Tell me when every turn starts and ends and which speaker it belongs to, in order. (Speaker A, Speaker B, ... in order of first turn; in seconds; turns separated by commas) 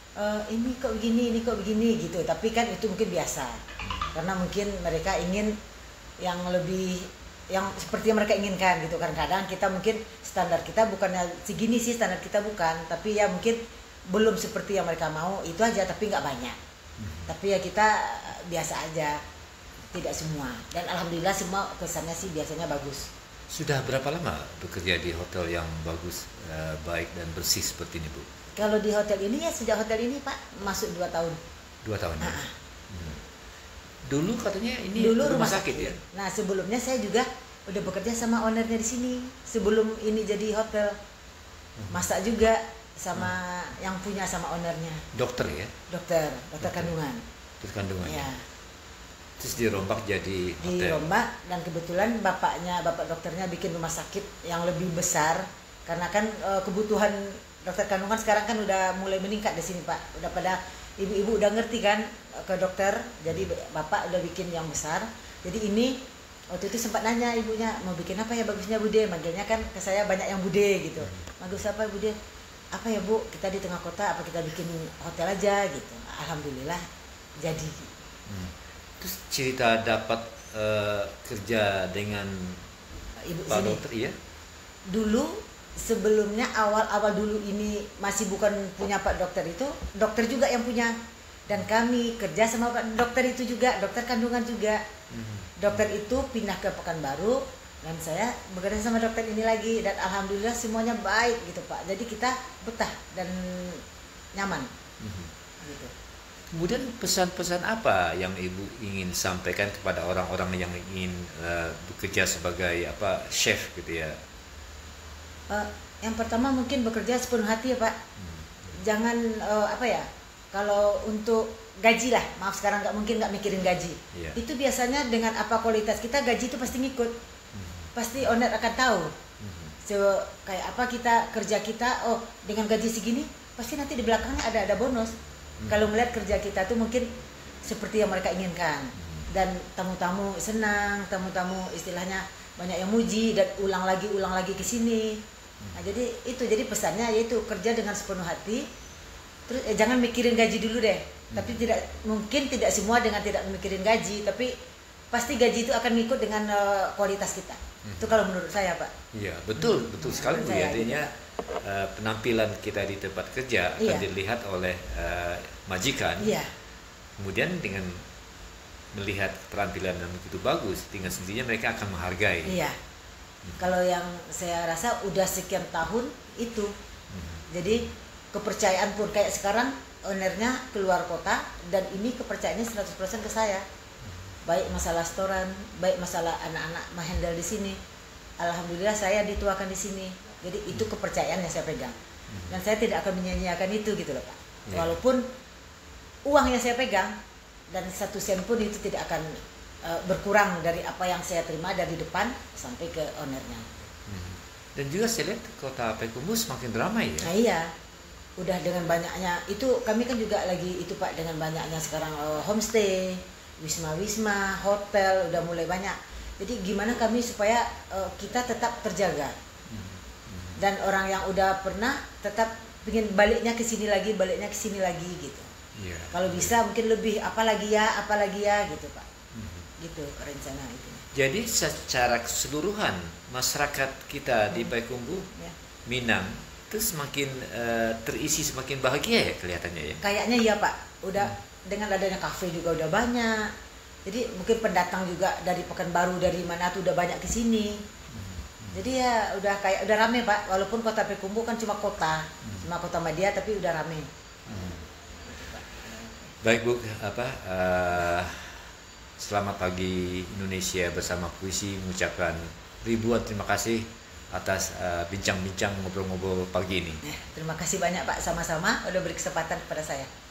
Speaker A: 0.2-5.5, Speaker A: 6.2-16.6, Speaker B: 17.0-17.3, Speaker A: 17.3-19.2, Speaker A: 19.9-23.1, Speaker B: 23.5-28.3, Speaker A: 28.6-31.4, Speaker B: 31.8-32.4, Speaker A: 32.2-32.5, Speaker B: 32.9-33.2, Speaker B: 34.1-36.0, Speaker A: 35.0-41.0, Speaker A: 41.9-45.0, Speaker B: 45.1-45.7, Speaker A: 45.9-47.2, Speaker B: 46.6-46.9, Speaker B: 47.6-48.3, Speaker A: 48.0-48.5, Speaker B: 49.4-51.0, Speaker A: 50.6-72.2, Speaker A: 72.7-76.8, Speaker A: 77.4-77.9, Speaker B: 78.3-82.7, Speaker A: 83.2-83.8, Speaker B: 83.5-84.2, Speaker A: 84.9-90.9, Speaker A: 91.5-94.8, Speaker B: 95.1-95.8, Speaker A: 95.6-103.8, Speaker A: 104.3-104.7, Speaker B: 105.0-105.3, Speaker A: 105.6-105.9, Speaker B: 106.5-114.2, Speaker A: 115.5-118.0, Speaker B: 118.2-118.5, Speaker A: 118.7-127.2, Speaker B: 124.1-124.4, Speaker B: 127.5-127.9, Speaker A: 128.0-129.2, Speaker B: 129.4-129.7, Speaker A: 129.8-135.1, Speaker A: 135.7-137.1, Speaker A: 137.6-145.2, Speaker A: 145.8-148.7, Speaker A: 149.5-154.5, Speaker B: 151.3-151.6, Speaker A: 155.1-158.9, Speaker B: 157.9-158.2, Speaker B: 159.1-166.3, Speaker A: 159.6-161.1, Speaker A: 163.8-164.1, Speaker A: 166.2-166.5, Speaker B: 167.2-168.0, Speaker B: 168.9-172.6, Speaker A: 172.4-172.8, Speaker A: 173.6-176.7, Speaker B: 177.1-177.4, Speaker A: 177.5-183.6, Speaker A: 184.5-187.8, Speaker A: 188.4-191.9, Speaker A: 192.5-195.2, Speaker A: 196.3-197.2, Speaker A: 197.7-203.9, Speaker B: 204.1-207.3, Speaker A: 207.2-207.7, Speaker A: 208.4-219.4, Speaker B: 219.7-220.6, Speaker A: 220.6-225.5, Speaker B: 225.8-226.5, Speaker A: 226.1-229.1, Speaker B: 229.3-229.7, Speaker A: 229.8-231.1, Speaker B: 231.1-235.3, Speaker B: 235.9-240.0, Speaker A: 240.0-243.5, Speaker A: 244.1-247.8, Speaker B: 248.1-248.8, Speaker A: 248.7-254.1, Speaker B: 254.5-254.8, Speaker B: 256.4-267.0, Speaker A: 267.0-270.1